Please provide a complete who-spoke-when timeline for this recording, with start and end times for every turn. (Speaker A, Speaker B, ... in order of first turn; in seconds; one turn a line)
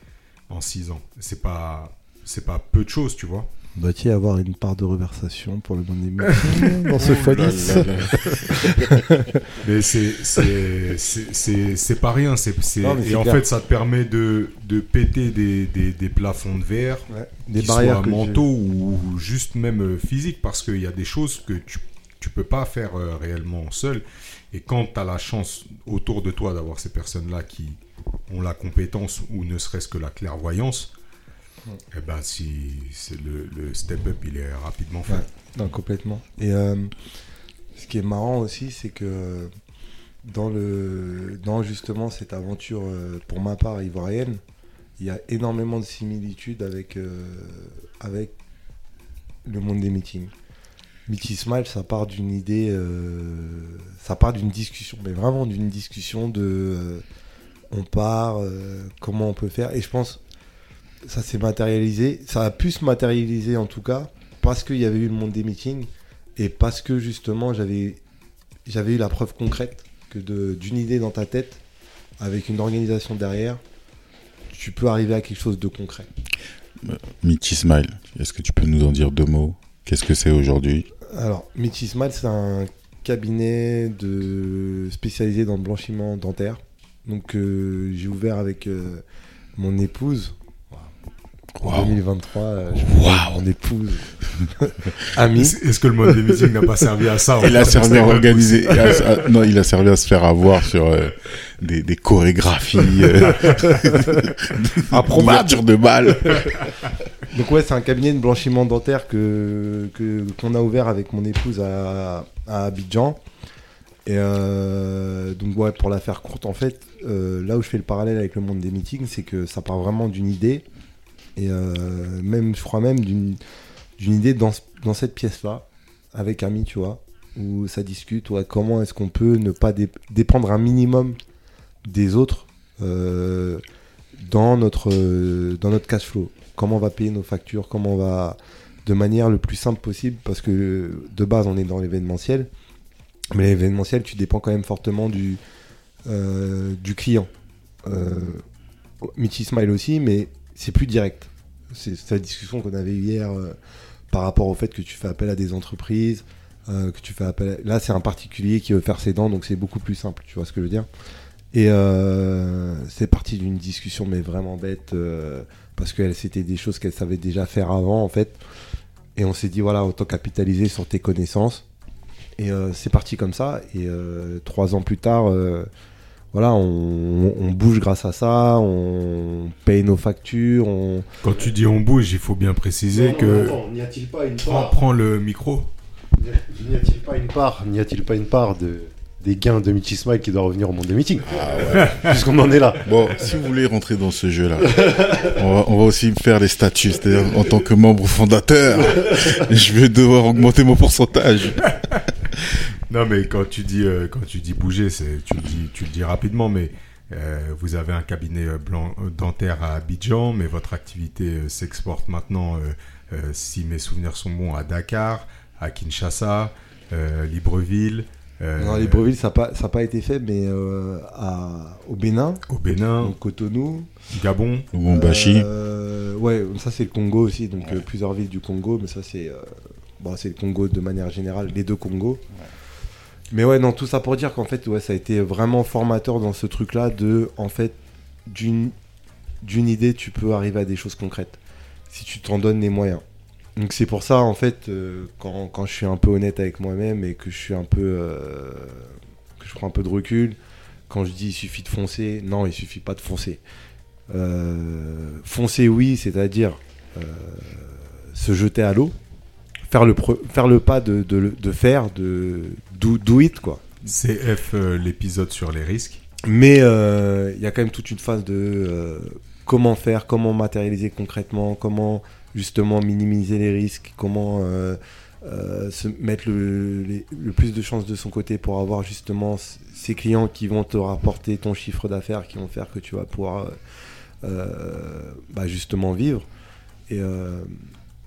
Speaker A: 0.5-3.5
Speaker B: 3.8-9.6
Speaker A: 6.5-8.1
Speaker C: 7.0-9.1
Speaker A: 9.6-30.9
Speaker B: 12.8-13.4
Speaker B: 17.1-18.4
Speaker A: 31.9-35.2
Speaker B: 35.1-36.9
Speaker B: 37.7-39.5
Speaker B: 40.2-44.4
Speaker B: 45.0-48.3
Speaker B: 49.4-50.3
Speaker B: 51.1-57.0
Speaker B: 57.7-60.2
Speaker B: 61.0-68.0
Speaker B: 68.7-71.6
Speaker B: 72.2-73.6
Speaker B: 74.5-76.1
Speaker C: 76.8-80.9
Speaker B: 81.1-89.0
Speaker B: 89.5-90.9
Speaker C: 91.6-92.0
Speaker B: 91.6-95.6
Speaker C: 92.8-93.4
Speaker A: 95.3-99.3
Speaker C: 97.4-106.7
Speaker A: 103.2-103.7
Speaker B: 104.9-105.6
Speaker B: 107.3-113.2
Speaker B: 114.0-120.6
Speaker B: 121.3-123.4
Speaker B: 124.0-131.2
Speaker B: 131.8-133.6
Speaker B: 134.2-142.5
Speaker B: 143.3-145.4
Speaker B: 146.1-147.3
Speaker B: 147.8-148.4
Speaker B: 149.0-153.6
Speaker B: 154.1-160.9
Speaker B: 161.5-168.4
Speaker B: 169.2-171.6
Speaker B: 172.4-175.7
Speaker B: 176.3-181.1
Speaker A: 181.2-183.6
Speaker D: 182.9-184.8
Speaker A: 184.4-185.7
Speaker D: 186.2-193.3
Speaker C: 191.2-192.0
Speaker A: 191.8-192.1
Speaker C: 192.8-201.8
Speaker D: 194.7-195.4
Speaker A: 201.8-202.0
Speaker A: 202.9-219.0
Speaker B: 218.6-222.4
Speaker A: 222.5-223.1
Speaker B: 223.0-223.9
Speaker A: 224.1-224.7
Speaker C: 224.7-225.5
Speaker B: 224.9-232.2
Speaker B: 233.3-238.7
Speaker B: 239.4-241.4
Speaker B: 241.9-243.0
Speaker B: 243.6-250.4
Speaker B: 250.9-253.4
Speaker B: 254.1-258.9
Speaker B: 259.7-263.6
Speaker A: 263.8-266.0
Speaker B: 266.2-283.6
Speaker B: 284.2-286.3
Speaker B: 286.9-287.6